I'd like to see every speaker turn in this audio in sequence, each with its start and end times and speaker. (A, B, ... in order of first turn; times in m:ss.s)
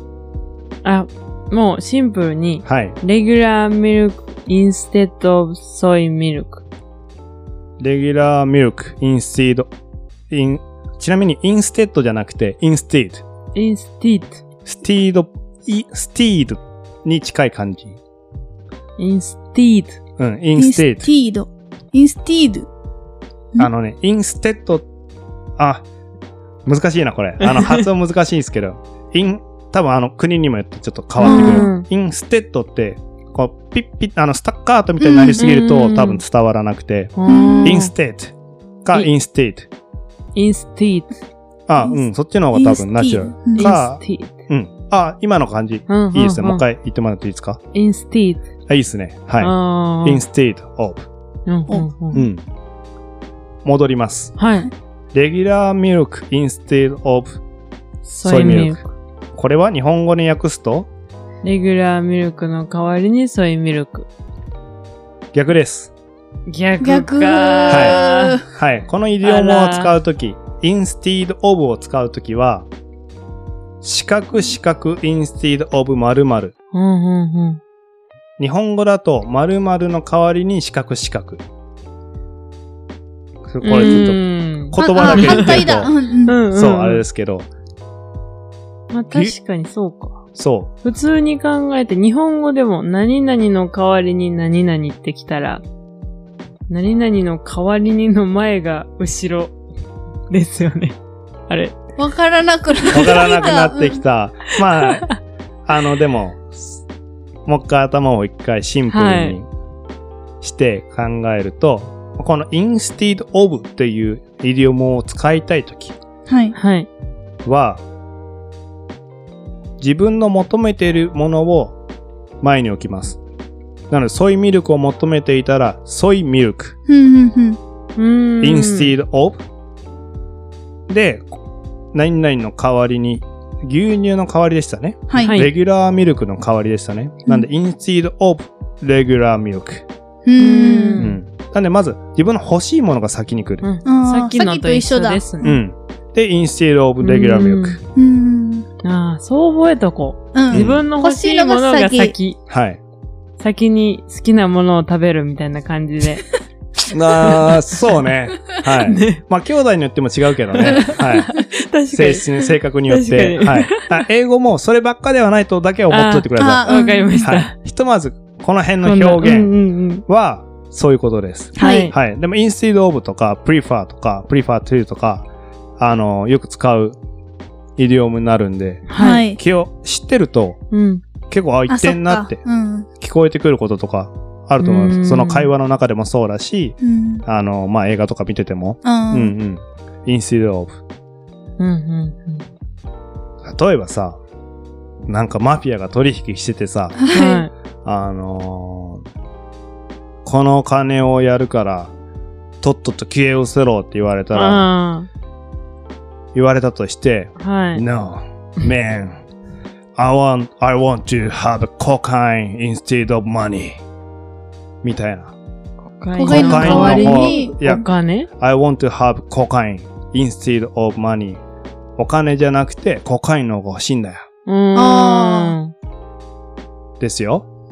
0:00.8-0:06.6 A
0:02.6-0:03.0 B
0:07.8-0:09.7 B
0:10.3-0:13.2 B
0:13.6-0:14.4 A
0:14.7-0:18.0 B
0:19.0-0:20.0 A
0:20.2-0:21.1 B
0:20.6-0:22.7 C
0:23.6-0:24.9 B
0:25.6-0:25.8 B
0:26.7-0:38.3 B
0:27.4-0:27.8 A
0:31.2-0:31.9 A
0:31.2-0:31.7 C
0:35.0-0:35.4 C
0:35.4-0:36.2 A
0:37.2-0:37.9 A
0:37.3-0:37.8 C
0:38.8-0:39.7 B
0:40.4-0:41.1 A
0:41.7-0:47.6 B
0:41.8-0:43.7 C
0:43.6-0:44.4 A
0:45.9-0:46.6 A
0:47.7-0:48.4 A
0:48.7-0:51.1 B
0:49.4-0:50.2 A
0:51.5-0:52.2 A
0:51.7-0:52.3 C
0:52.1-0:52.4 B
0:53.6-0:54.4 B
0:54.4-0:54.7 A
0:55.1-0:57.4 B
0:58.1-0:58.9 A
0:58.2-0:58.8 B
0:59.4-1:00.9 B
1:01.4-1:04.1 A
1:05.3-1:05.9 B
1:06.5-1:08.4 A
1:06.8-1:08.4 C
1:07.7-1:12.7 B
1:09.2-1:09.9 A
1:13.8-1:16.5 B
1:16.7-1:17.6 A
1:18.4-1:21.4 B
1:23.5-1:25.9 B
1:23.6-1:27.0 A
1:24.8-1:26.4 C
1:26.5-1:27.5 B
1:28.9-1:30.2 A
1:30.4-1:30.7 B
1:30.8-1:35.6 A
1:36.7-1:39.6 A
1:40.3-1:41.8 A
1:42.0-1:44.0 C
1:42.9-1:45.1 B
1:45.7-1:46.8 B
1:47.5-1:49.5 B
1:48.9-1:49.4 A
1:50.4-1:56.0 B
1:56.3-1:56.6 C
1:56.5-1:56.9 A
1:57.4-1:57.8 B
1:59.8-2:01.8 B
2:02.4-2:03.2 B
2:03.9-2:06.8 B
2:06.9-2:07.6 C
2:08.0-2:08.9 A
2:08.4-2:09.4 B
2:10.9-2:11.3 B
2:11.9-2:19.9 B
2:15.1-2:15.4 C
2:15.2-2:15.5 A
2:20.2-2:21.0 C
2:20.4-2:21.2 A
2:21.0-2:23.7 B
2:23.6-2:25.6 A
2:23.8-2:25.6 C
2:25.4-2:27.8 B
2:27.0-2:27.8 A
2:28.0-2:28.7 C
2:28.8-2:32.4 A
2:30.3-2:32.2 C
2:30.5-2:30.8 B
2:32.5-2:32.8 B
2:33.4-2:36.2 A
2:36.9-2:41.3 B
2:37.2-2:37.6 A
2:38.8-2:39.2 A
2:40.6-2:44.0 A
2:41.9-2:46.6 B
2:45.9-2:47.5 A
2:46.4-2:47.3 C
2:47.2-2:49.5 B
2:48.8-2:50.0 A
2:50.1-2:55.3 B
2:51.6-2:51.9 C
2:51.6-2:51.9 A
2:55.8-2:57.0 B
2:57.8-3:00.6 B
2:58.9-2:59.2 A
2:59.0-2:59.4 C
3:00.7-3:01.0 A
3:01.3-3:02.4 B
3:01.7-3:02.9 C
3:03.0-3:10.8 B
3:04.6-3:05.5 A
3:06.8-3:07.2 C
3:08.8-3:09.3 C
3:11.6-3:12.5 A
3:13.4-3:14.2 B
3:15.1-3:17.0 B
3:17.0-3:17.5 C
3:17.1-3:17.5 A
3:17.8-3:19.0 B
3:20.2-3:21.9 B
3:22.6-3:24.7 B
3:24.3-3:25.1 A
3:26.3-3:29.2 B
3:27.4-3:27.8 A
3:30.0-3:33.8 B
3:34.8-3:35.4 B
3:35.9-3:38.3 A
3:36.2-3:37.6 C
3:36.3-3:37.9 B
3:38.4-3:41.4 B
3:42.0-3:44.3 B
3:44.4-3:45.7 A
3:44.8-3:45.6 C
3:47.0-3:47.5 B